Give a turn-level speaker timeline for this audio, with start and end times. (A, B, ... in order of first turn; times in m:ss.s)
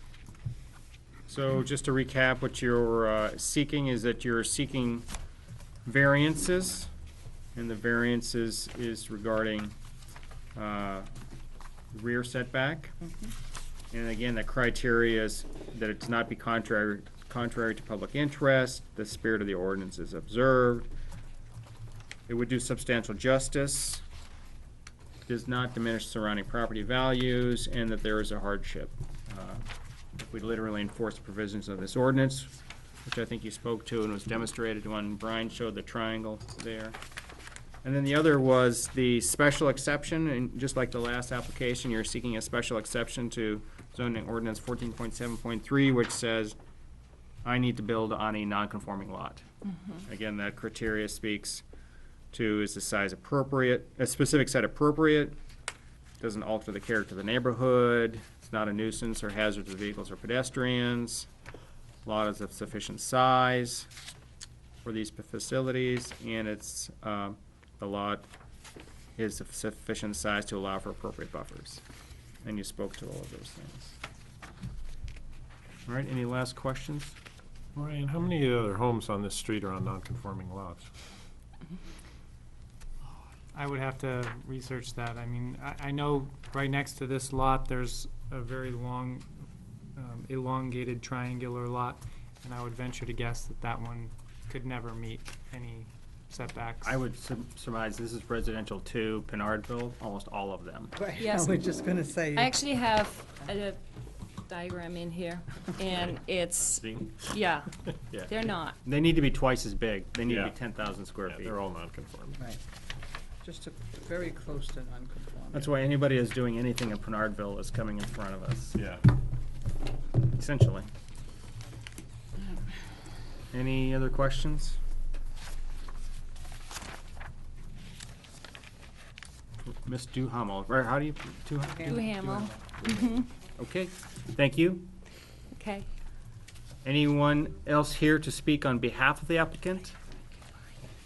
0:01.3-0:05.1 A
0:05.8-0:06.9 A
0:07.5-0:09.7 A
0:10.5-0:11.1 A
0:11.9-0:12.9 A
0:13.9-0:20.9 A
0:22.3-0:24.0 A
0:25.3-0:29.6 A
0:30.2-0:32.5 A
0:33.0-0:37.0 A
0:37.8-0:46.6 A
0:47.4-0:49.4 A
0:50.0-0:51.6 A
0:52.3-0:55.4 A
0:56.2-1:01.3 A
1:02.0-1:03.9 A
1:04.8-1:08.3 A
1:09.2-1:11.8 A
1:12.4-1:14.0 A
1:15.9-1:17.2 A
1:17.7-1:20.9 B
1:23.5-1:29.2 C
1:30.0-1:37.0 C
1:36.8-1:40.9 A
1:41.0-1:42.6 D
1:41.2-1:41.5 E
1:42.4-1:43.8 E
1:44.5-1:47.6 E
1:45.9-1:48.4 B
1:48.2-1:48.8 E
1:48.8-1:51.6 A
1:50.2-1:50.6 B
1:51.2-1:52.4 B
1:53.4-1:55.7 D
1:55.5-1:58.8 A
1:58.7-1:59.0 B
2:00.3-2:00.9 A
2:03.5-2:04.8 A
2:09.8-2:13.0 A
2:11.8-2:13.3 E
2:13.6-2:14.9 A
2:15.5-2:15.9 E
2:16.8-2:20.0 A